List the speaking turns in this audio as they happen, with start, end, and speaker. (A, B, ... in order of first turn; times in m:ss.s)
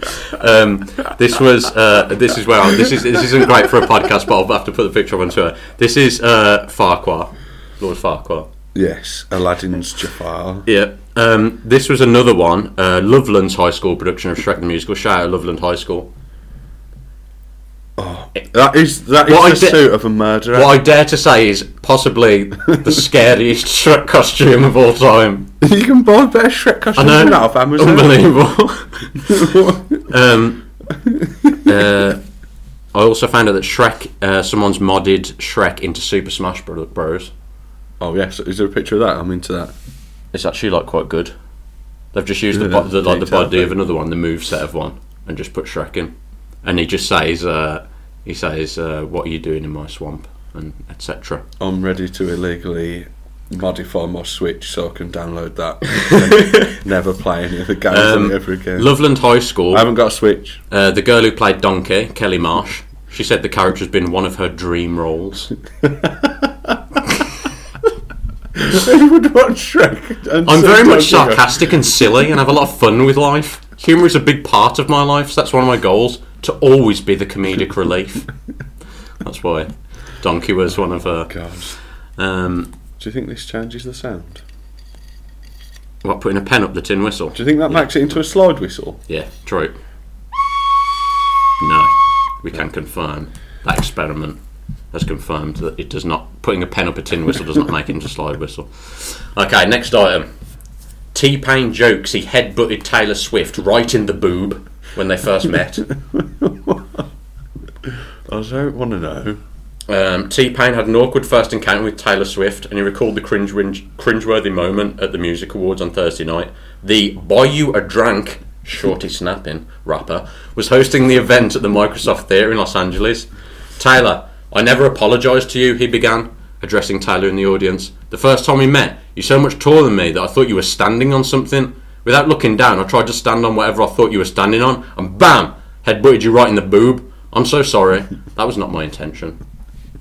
0:00.3-0:08.5 A
0:08.7-0:10.7 B
0:10.7-0:16.1 A
0:18.0-0:20.8 B
0:19.3-0:20.0 A
0:20.5-0:25.5 A
0:25.6-0:28.2 B
0:27.0-0:30.6 A
0:29.3-0:30.0 B
0:31.1-0:31.6 B
0:31.7-0:32.2 A
0:32.9-0:37.3 A
0:38.0-0:39.7 B
0:40.3-0:41.3 A
0:42.1-0:46.1 A
0:42.5-0:43.8 B
0:46.6-0:51.4 A
0:51.6-0:59.0 B
0:56.0-0:56.8 A
0:57.9-0:59.9 A
0:59.7-1:00.6 B
1:00.7-1:05.5 A
1:06.0-1:06.5 B
1:08.6-1:11.9 B
1:10.4-1:18.3 A
1:19.2-1:21.4 A
1:21.3-1:21.7 B
1:22.2-1:22.7 A
1:23.0-1:24.4 B
1:26.0-1:28.2 A
1:27.3-1:29.0 B
1:29.1-1:29.8 A
1:31.6-1:34.4 A
1:34.9-1:40.3 A
1:41.1-1:45.9 A
1:46.1-1:47.0 B
1:48.3-1:49.4 B
1:49.9-2:19.4 A